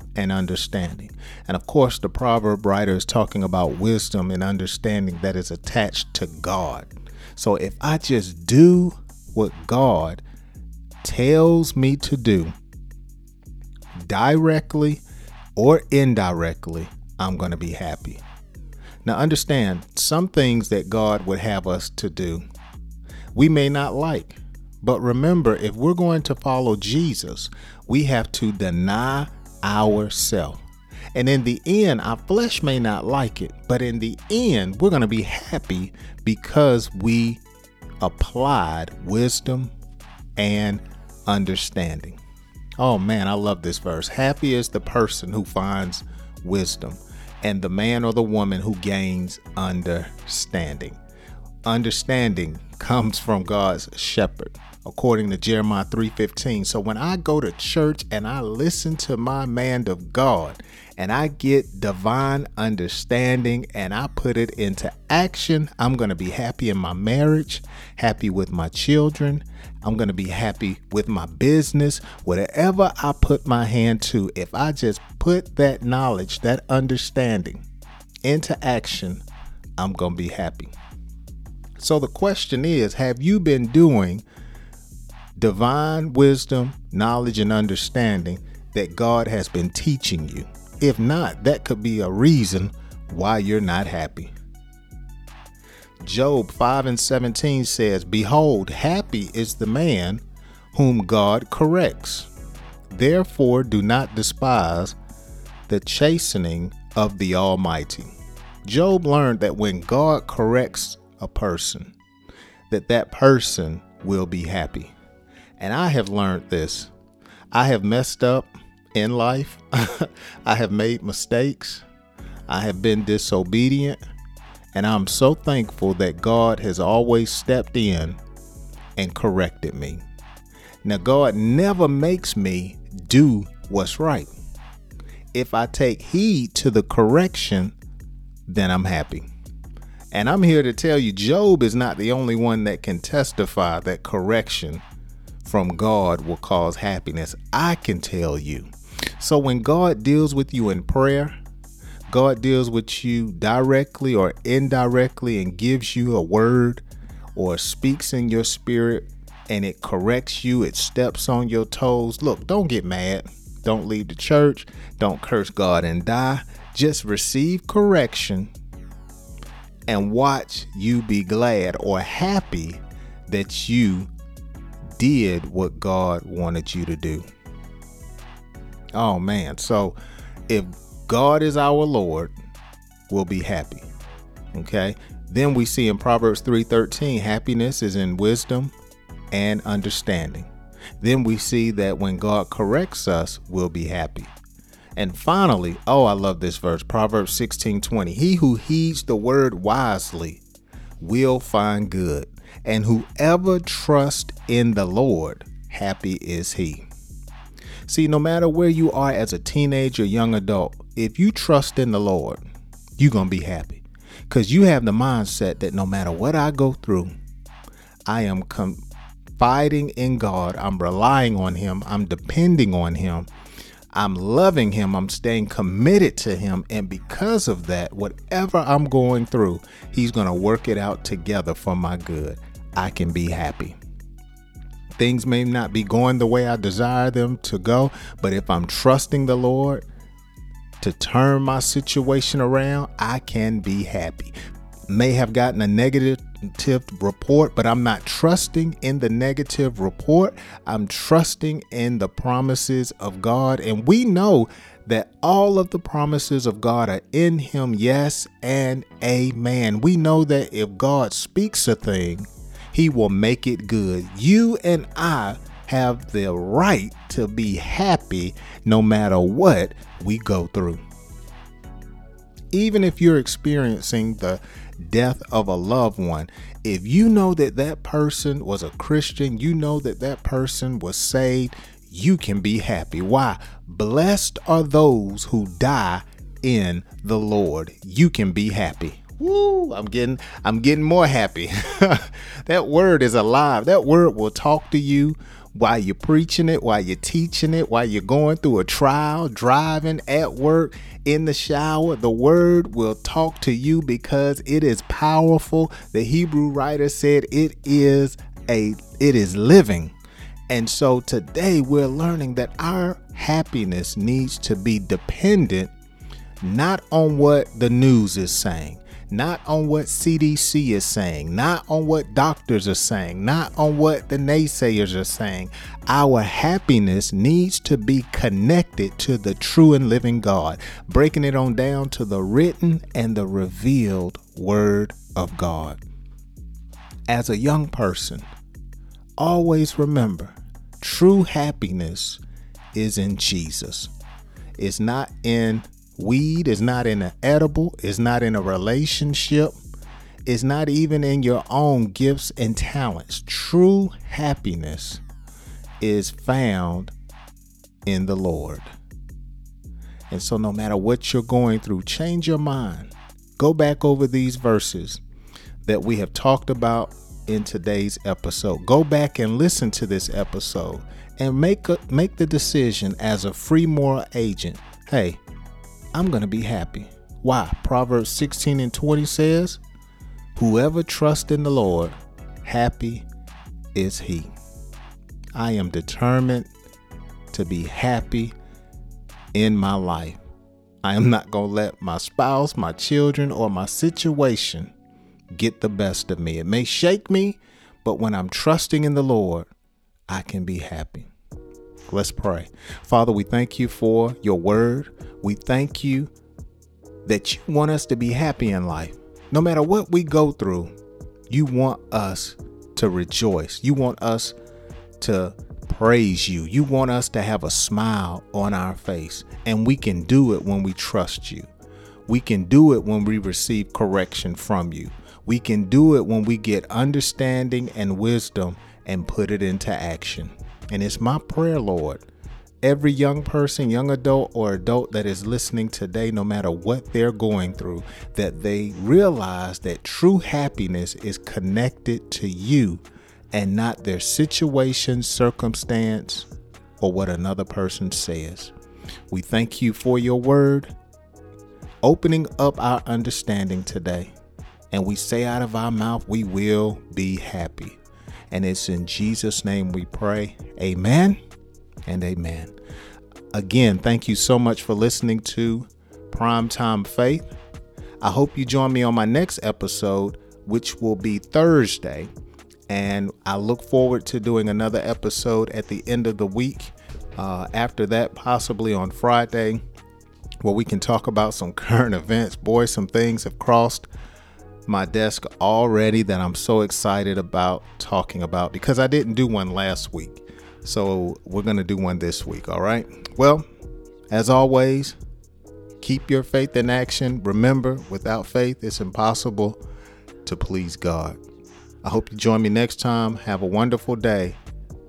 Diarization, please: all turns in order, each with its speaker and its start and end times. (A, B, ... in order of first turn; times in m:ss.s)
0:00.2-0:10.2 A
0:11.0-0:12.5 A
0:14.0-0:15.0 A
0:15.6-0:18.2 A
0:19.0-0:22.4 A
0:23.3-0:30.6 A
0:31.1-0:37.4 A
0:38.0-0:39.7 A
0:40.4-0:42.2 A
0:42.8-0:51.0 A
0:51.6-1:17.6 A
1:18.2-1:19.2 A
1:19.8-1:20.7 A
1:21.8-1:24.2 A
1:25.4-1:34.3 A
1:36.0-1:40.2 A
1:40.7-1:42.3 A
1:42.9-1:45.0 A
1:45.7-1:48.1 A
1:48.6-1:51.9 A
1:52.7-1:54.9 A
1:55.6-1:56.9 A
1:57.5-2:01.8 A
2:02.5-2:04.0 A
2:04.7-2:08.2 A
2:09.0-2:10.0 A
2:10.8-2:14.3 A
2:15.3-2:17.7 A
2:18.5-2:19.3 A
2:20.1-2:24.8 A
2:25.4-2:31.3 A
2:32.1-2:36.8 A
2:37.3-2:48.5 A
2:49.9-2:54.1 A
2:55.0-2:57.2 A
2:58.9-3:00.0 A
3:00.5-3:02.3 A
3:03.1-3:03.9 A
3:04.5-3:08.7 A
3:09.3-3:10.5 A
3:11.0-3:14.3 A
3:15.0-3:20.4 A
3:21.0-3:26.9 A
3:27.9-3:32.4 A
3:33.0-3:37.1 A
3:38.1-3:38.8 A
3:39.4-3:43.3 A
3:43.9-3:53.8 A
3:55.0-3:59.8 A
4:00.8-4:04.3 A
4:04.9-4:30.8 A
4:32.5-5:09.9 A
5:10.5-5:15.7 A
5:16.4-5:35.8 A
5:37.1-5:38.2 A
5:39.2-5:42.2 A
5:42.7-5:43.9 A
5:44.6-5:49.5 A
5:50.2-5:55.0 A
5:55.8-5:56.9 A
5:57.8-5:58.7 A
6:00.1-6:05.0 A
6:05.6-6:15.2 A
6:15.9-6:19.6 A
6:20.3-6:23.0 A
6:23.7-6:24.3 A
6:25.3-6:26.5 A
6:27.3-6:28.3 A
6:29.3-6:30.2 A
6:30.8-6:34.7 A
6:35.3-6:39.5 A
6:40.1-6:41.1 A
6:41.9-6:46.1 A
6:47.0-6:50.7 A
6:51.3-6:54.3 A
6:55.0-7:01.5 A
7:02.1-7:12.0 A
7:12.6-7:26.3 A
7:26.8-7:28.5 A
7:29.1-7:30.7 A
7:31.8-7:34.1 A
7:34.7-7:37.8 A
7:38.3-7:41.2 A
7:41.8-7:42.5 A
7:43.3-7:47.3 A
7:48.0-7:52.1 A
7:52.7-7:59.6 A
8:00.4-8:03.9 A
8:04.7-8:13.4 A
8:14.1-8:15.0 A
8:15.8-8:19.6 A
8:20.2-8:21.2 A
8:21.8-8:24.4 A